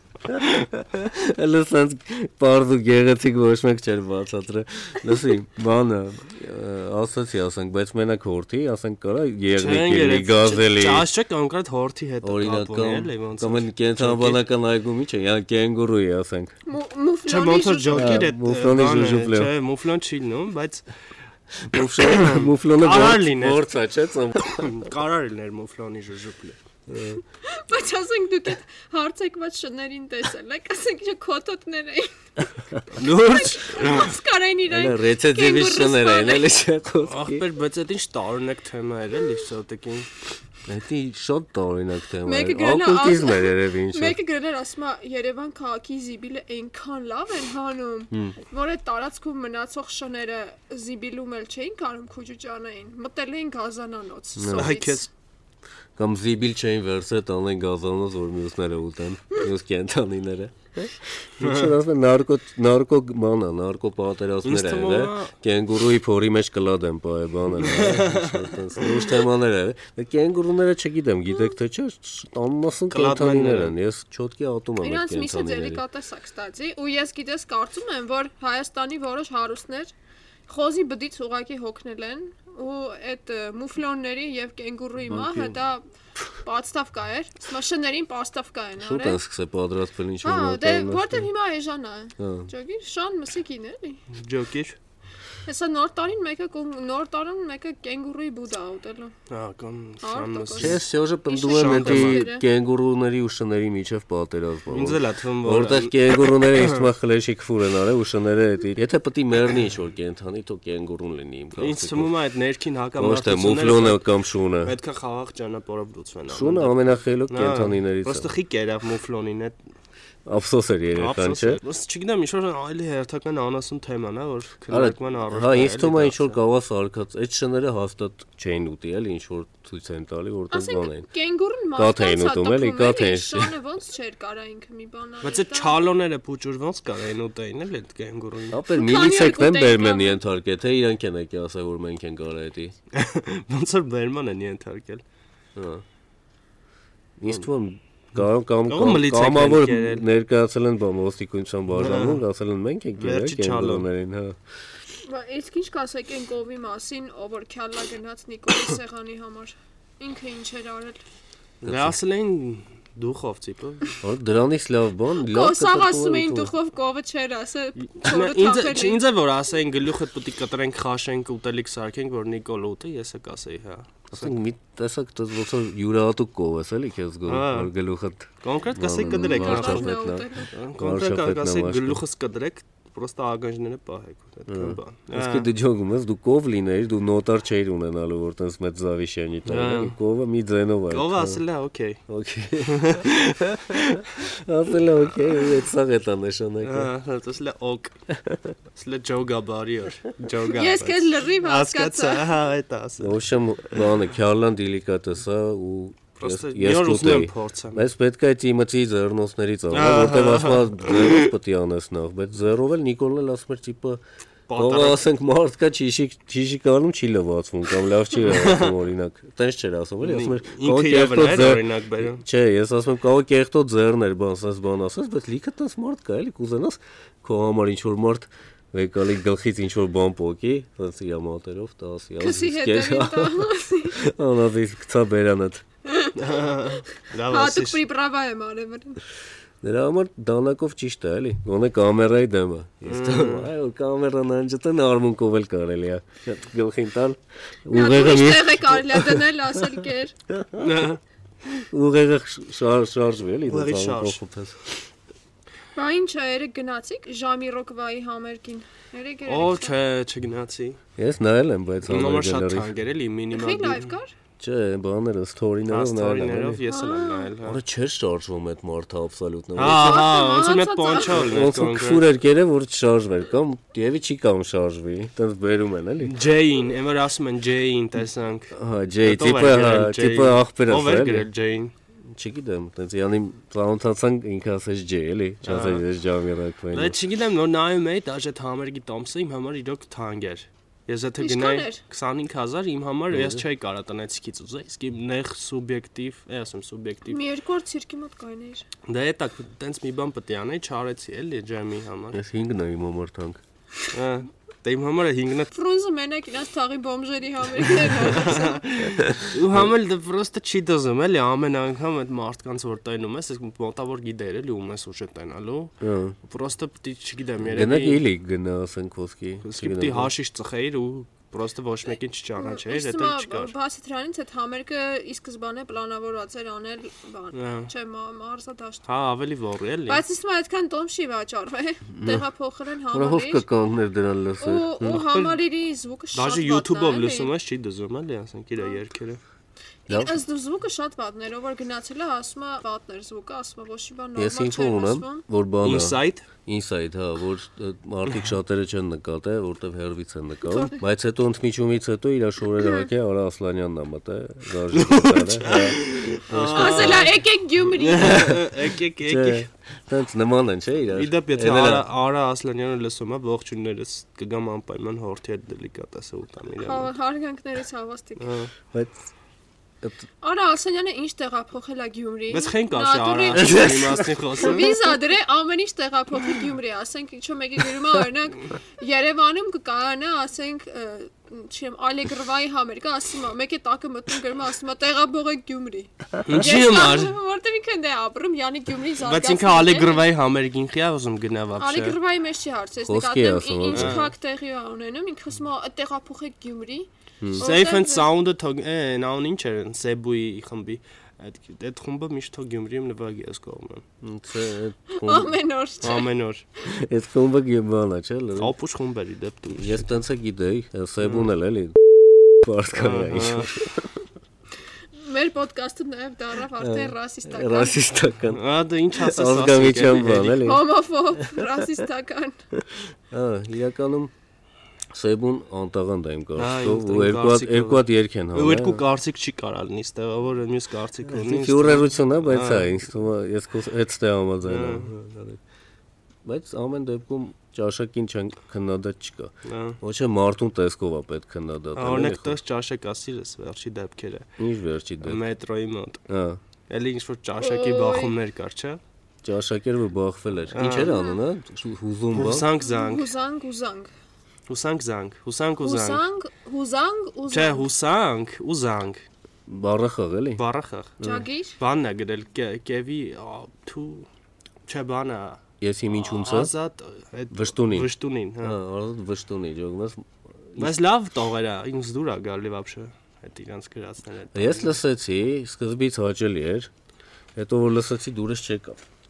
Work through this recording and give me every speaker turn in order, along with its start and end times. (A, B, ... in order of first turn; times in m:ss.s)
0:00.2-0:11.0 A
0:09.6-0:14.4 B
0:12.2-0:16.6 A
0:16.6-0:18.3 C
0:17.3-0:20.8 B
0:17.9-0:19.5 A
0:21.6-0:24.7 A
0:21.8-0:23.6 B
0:24.4-0:26.6 B
0:26.9-0:27.2 A
0:27.4-0:32.1 C
0:32.9-0:34.1 B
0:33.1-0:36.5 C
0:34.7-0:37.4 A
0:37.1-0:40.1 B
0:40.6-0:44.2 A
0:42.2-0:55.1 C
0:54.4-0:54.7 A
0:54.6-0:55.1 B
0:56.0-1:15.8 A
1:01.4-1:01.7 B
1:04.4-1:05.3 B
1:07.6-1:09.1 B
1:12.9-1:13.7 B
1:14.8-1:19.9 C
1:20.5-1:25.8 C
1:25.1-1:25.6 A
1:26.4-1:29.2 C
1:28.8-1:31.2 A
1:30.2-1:34.0 C
1:32.2-1:32.5 A
1:34.1-1:34.8 B
1:35.4-1:39.1 C
1:39.3-1:40.8 B
1:40.0-1:42.4 C
1:40.6-1:52.1 A
1:41.4-1:42.2 B
1:44.7-1:46.8 B
1:51.6-1:54.0 B
1:53.0-1:54.7 A
1:54.6-1:56.7 B
1:56.3-1:58.3 A
1:57.3-1:59.6 B
2:00.2-2:01.6 A
2:01.0-2:06.4 B
2:04.7-2:11.1 A
2:10.5-2:15.8 C
2:11.8-2:13.5 A
2:15.2-2:18.6 B
2:18.5-2:22.7 A
2:18.7-2:20.2 C
2:22.9-2:25.0 B
2:25.6-2:25.8 A
2:27.2-2:34.4 A
2:28.7-2:30.0 B
2:31.8-2:32.2 B
2:33.0-2:33.9 B
2:35.0-2:41.0 C
2:41.6-2:42.0 A
2:41.6-2:43.9 B
2:44.0-2:46.5 A
2:45.2-2:49.0 C
2:47.8-2:54.4 B
2:54.1-3:02.0 A
2:57.3-2:57.7 B
2:58.4-2:59.9 B
2:59.0-3:00.5 C
3:00.5-3:05.4 B
3:04.5-3:11.4 A
3:09.4-3:10.0 B
3:10.9-3:12.0 B
3:12.1-3:16.9 A
3:12.6-3:14.0 B
3:16.6-3:17.9 B
3:18.1-3:18.5 A
3:18.7-3:23.2 B
3:20.5-3:22.3 C
3:23.0-3:34.0 A
3:26.2-3:27.8 B
3:29.7-3:31.3 B
3:34.5-3:35.0 B
3:34.5-3:55.6 A
3:38.2-3:38.8 B
3:40.0-3:42.2 B
3:52.2-3:54.0 C
3:55.8-3:59.0 C
3:56.2-3:57.8 B
3:59.6-4:09.2 A
4:02.8-4:03.5 B
4:07.7-4:10.2 C
4:10.3-4:10.7 A
4:10.5-4:11.0 B
4:11.6-4:14.6 A
4:13.5-4:14.2 B
4:15.8-4:19.7 C
4:19.3-4:20.8 B
4:21.0-4:22.7 A
4:21.9-4:23.9 B
4:23.3-4:24.1 C
4:24.4-4:26.6 A
4:25.7-4:27.6 B
4:26.7-4:27.3 C
4:27.4-4:30.0 A
4:29.6-4:32.0 B
4:29.6-4:31.3 C
4:31.1-4:36.1 A
4:36.0-4:41.7 B
4:38.5-4:41.3 A
4:42.1-4:47.0 A
4:45.4-4:45.8 B
4:46.7-4:57.2 B
4:51.2-4:51.8 C
4:53.1-4:53.4 A
4:57.1-4:58.6 C
4:58.9-5:02.2 B
5:02.1-5:03.4 A
5:03.9-5:05.5 B
5:05.5-5:08.7 C
5:08.1-5:18.0 B
5:09.0-5:09.3 A
5:15.8-5:16.2 A
5:17.4-5:20.1 A
5:19.4-5:23.5 B
5:22.4-5:28.8 C
5:27.3-5:27.7 B
5:28.9-5:30.0 B
5:29.9-5:33.4 C
5:31.9-5:32.2 A
5:32.9-5:35.0 A
5:34.4-5:37.3 C
5:35.0-5:35.4 B
5:36.1-5:39.2 B
5:39.9-5:45.2 C
5:39.9-5:40.2 A
5:44.2-5:57.1 A
5:45.6-5:46.2 B
5:50.5-5:50.8 C
5:52.6-5:52.9 C
5:54.7-5:59.5 B
5:56.4-5:58.3 C
5:58.0-5:58.5 A
5:59.0-6:01.8 A
6:00.9-6:06.9 B
6:06.6-6:08.3 C
6:08.2-6:08.5 B
6:10.2-6:30.1 C
6:12.3-6:14.7 B
6:13.4-6:14.1 A
6:26.2-6:27.1 B
6:29.0-6:32.0 B
6:31.6-6:38.1 C
6:32.9-6:34.0 A
6:33.7-6:34.0 B
6:37.4-6:43.8 B
6:44.0-6:45.4 A
6:44.9-6:46.1 C
6:45.8-6:46.4 B
6:46.6-6:48.5 A
6:48.4-6:50.0 B
6:49.5-6:51.8 A
6:52.4-6:54.0 A
6:52.7-6:53.5 B
6:55.0-6:57.8 C
6:56.6-6:58.4 A
6:58.3-7:00.5 B
6:58.9-7:00.6 A
7:00.4-7:02.4 C
7:02.6-7:04.1 A
7:04.9-7:08.8 A
7:06.4-7:12.7 B
7:11.1-7:15.4 A
7:14.4-7:14.9 B
7:16.2-7:22.4 A
7:19.4-7:19.8 B
7:21.8-7:24.3 B
7:24.4-7:25.2 A
7:25.0-7:26.0 B
7:26.1-7:26.4 A
7:26.7-7:28.8 B
7:27.4-7:28.2 C
7:29.2-7:32.5 A
7:30.5-7:30.9 B
7:30.9-7:31.2 C
7:32.1-7:33.1 B
7:32.6-7:33.9 C
7:34.5-7:36.0 B
7:35.6-7:37.7 C
7:37.3-7:39.0 B
7:39.5-7:40.4 A
7:40.4-7:44.1 B
7:41.0-7:41.6 C
7:44.7-7:48.5 B
7:45.6-7:46.5 A
7:47.3-7:47.9 A
7:48.4-7:50.8 A
7:50.6-7:54.8 B
7:54.3-7:56.7 A
7:57.4-7:58.8 A